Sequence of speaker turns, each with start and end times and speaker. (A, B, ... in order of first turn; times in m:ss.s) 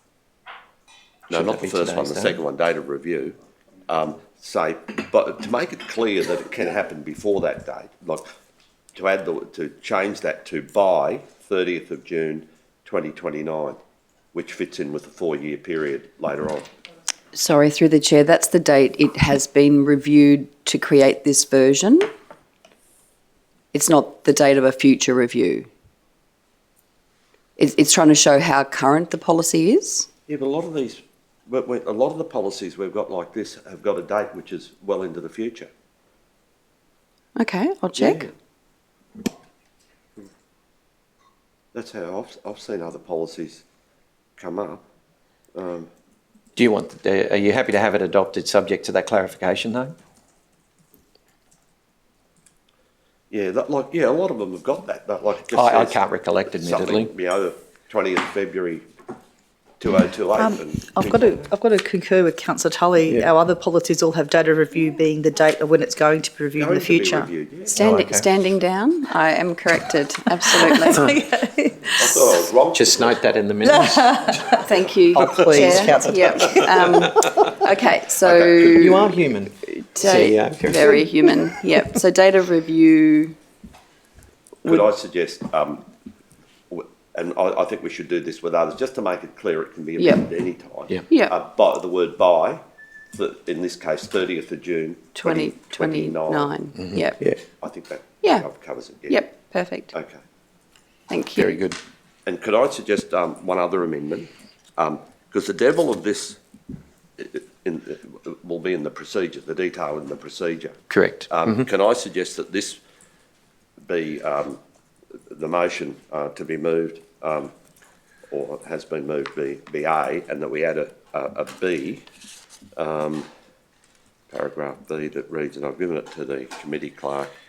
0:01.3-0:02.4 A
0:01.3-0:03.4 B
0:03.9-0:08.2 B
0:08.9-0:13.8 B
0:14.3-0:16.7 B
0:17.3-0:22.1 C
0:23.7-0:25.7 C
0:27.6-0:30.1 C
0:30.3-0:35.7 B
0:37.4-0:38.3 C
0:37.9-0:38.3 B
0:41.7-0:43.6 B
0:44.4-0:44.8 B
0:45.5-0:45.9 B
0:46.6-0:49.9 A
0:53.3-0:58.8 B
0:55.5-0:57.1 A
0:59.8-1:01.5 B
1:00.3-1:07.3 D
1:06.6-1:07.9 B
1:07.7-1:11.1 C
1:07.8-1:08.3 A
1:10.5-1:12.4 D
1:12.0-1:13.2 B
1:12.7-1:14.4 A
1:13.6-1:17.4 D
1:14.6-1:19.1 C
1:15.4-1:16.0 A
1:18.2-1:19.1 B
1:18.5-1:21.1 A
1:19.6-1:23.4 C
1:24.6-1:25.8 B
1:26.7-1:32.6 B
1:30.0-1:30.3 C
1:33.1-1:36.6 B
1:35.1-1:37.2 C
1:36.8-1:37.4 A
1:37.6-1:39.3 B
1:39.1-1:39.9 C
1:39.9-1:40.2 B
1:41.1-1:41.6 C
1:41.4-1:41.8 A
1:42.2-1:46.4 B
1:47.2-1:52.8 B
1:50.9-1:51.5 A
1:53.8-1:54.6 B
1:55.3-1:57.5 B
1:58.3-2:02.0 B
2:02.8-2:03.2 B
2:04.3-2:07.3 B